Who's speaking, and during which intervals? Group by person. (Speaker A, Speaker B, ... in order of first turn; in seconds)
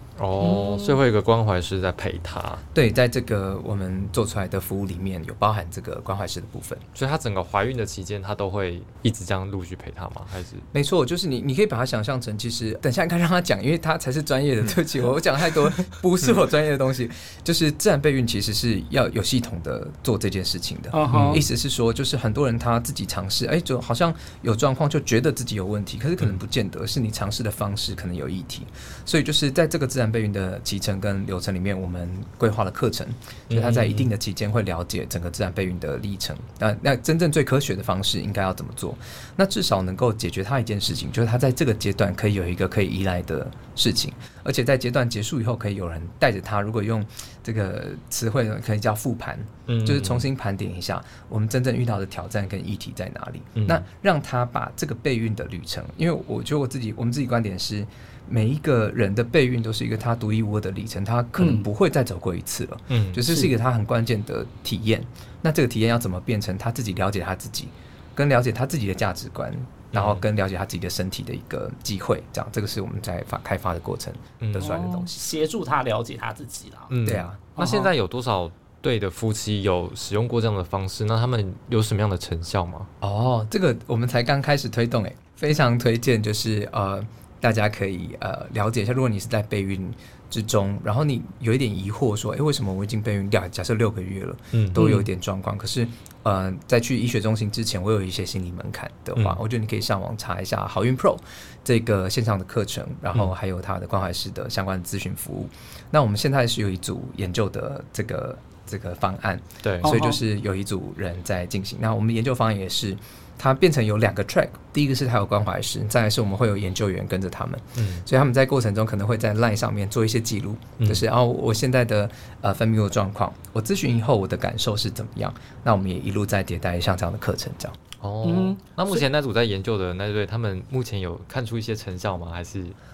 Speaker A: 0.2-2.6, 7.0-10.6, 21.1-21.4, 33.5-34.1, 49.7-50.3, 53.5-53.8, 62.9-63.2, 69.9-70.2, 74.4-74.9, 76.9-82.9, 94.5-95.0, 109.6-109.9, 117.8-118.0, 128.0-132.8
Speaker B: 0.4-1.0, 20.9-21.4, 61.4-61.6, 74.6-76.9, 77.5-77.9, 94.8-95.0, 109.8-110.2, 128.2-129.0
Speaker C: 2.7-6.8, 10.7-75.2, 77.0-77.4, 83.0-127.8